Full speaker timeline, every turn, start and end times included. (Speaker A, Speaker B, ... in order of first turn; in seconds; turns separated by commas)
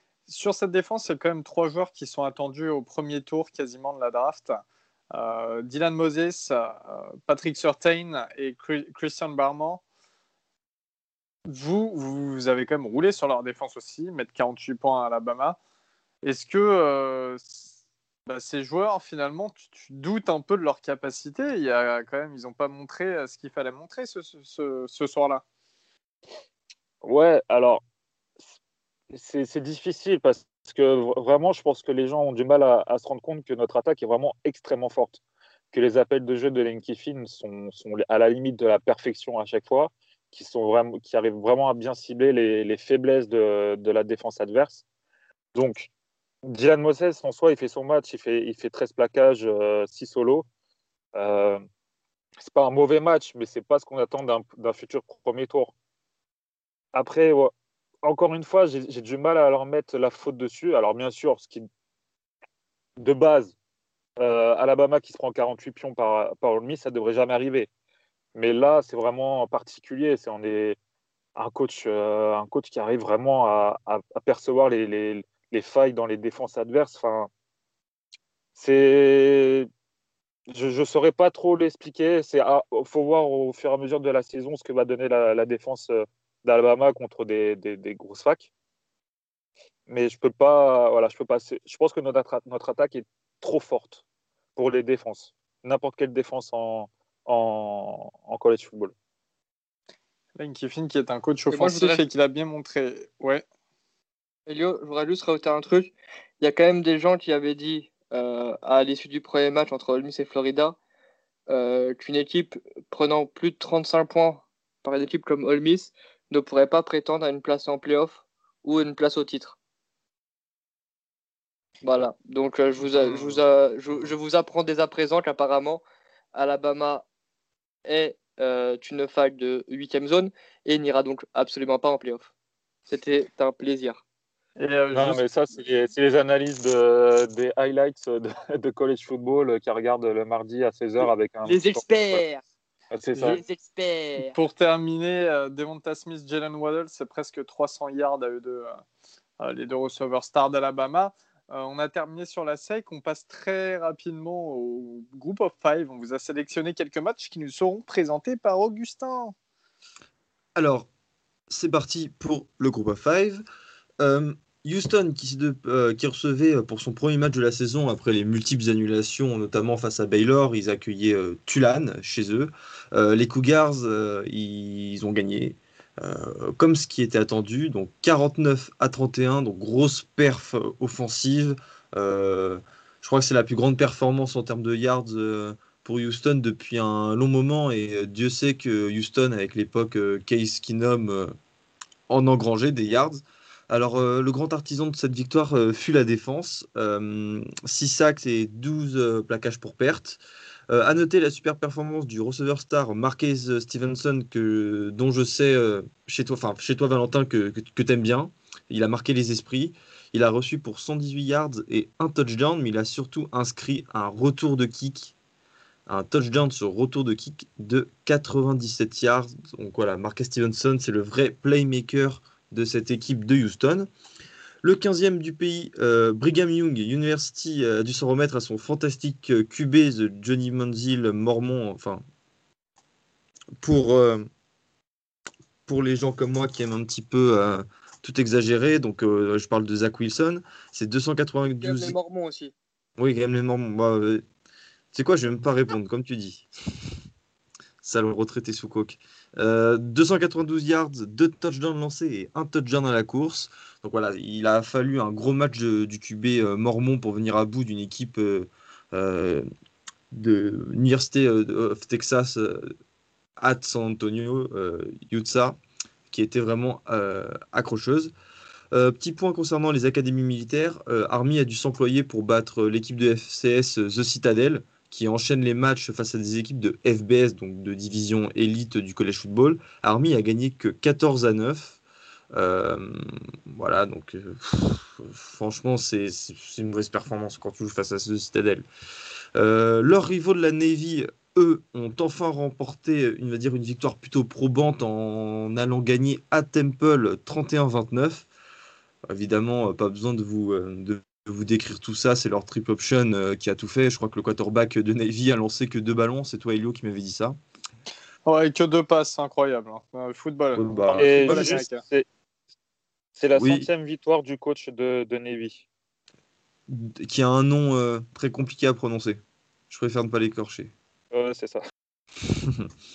Speaker A: 0.3-9.8, Speaker A: 11.4-15.6, Speaker A: 16.2-17.7, Speaker A: 18.3-25.4, Speaker B: 27.0-27.8, Speaker B: 29.1-35.2, Speaker B: 35.7-44.8, Speaker B: 45.5-45.9, Speaker B: 46.4-50.5, Speaker B: 51.1-51.6, Speaker B: 52.4-55.7, Speaker B: 56.9-57.5, Speaker B: 58.0-61.6, Speaker B: 63.0-63.5, Speaker B: 64.2-67.7, Speaker B: 68.3-70.8, Speaker B: 71.3-77.3, Speaker B: 78.5-79.7, Speaker B: 80.5-88.5, Speaker B: 89.9-94.0, Speaker B: 94.5-98.9, Speaker A: 100.3-103.4, Speaker C: 101.5-102.0, Speaker C: 104.5-110.8, Speaker C: 111.5-119.6, Speaker C: 121.8-125.8, Speaker A: 122.8-123.4, Speaker C: 126.3-127.0, Speaker C: 127.8-132.3, Speaker C: 132.9-134.0, Speaker A: 134.6-135.2, Speaker B: 134.9-142.2, Speaker C: 141.4-142.4, Speaker B: 142.9-143.4, Speaker A: 143.1-143.4, Speaker C: 143.3-144.4, Speaker A: 144.2-148.8, Speaker A: 149.4-159.3, Speaker D: 160.5-160.9, Speaker D: 161.5-163.4, Speaker D: 164.0-191.3, Speaker D: 192.1-215.1, Speaker D: 215.9-223.9, Speaker D: 224.6-232.0, Speaker D: 233.6-234.3, Speaker D: 235.7-241.9, Speaker C: 241.4-242.5, Speaker D: 243.0-244.2, Speaker D: 244.9-246.5, Speaker D: 247.8-259.4, Speaker D: 260.1-262.7, Speaker D: 263.4-265.6, Speaker D: 266.1-268.1, Speaker D: 268.7-281.8, Speaker D: 282.3-288.6, Speaker D: 289.3-298.3, Speaker D: 299.1-307.4, Speaker A: 308.2-311.8, Speaker D: 310.5-311.6, Speaker B: 311.0-312.1, Speaker B: 313.2-315.6, Speaker D: 313.3-313.7, Speaker D: 316.7-320.7, Speaker B: 321.1-321.6, Speaker D: 322.3-322.7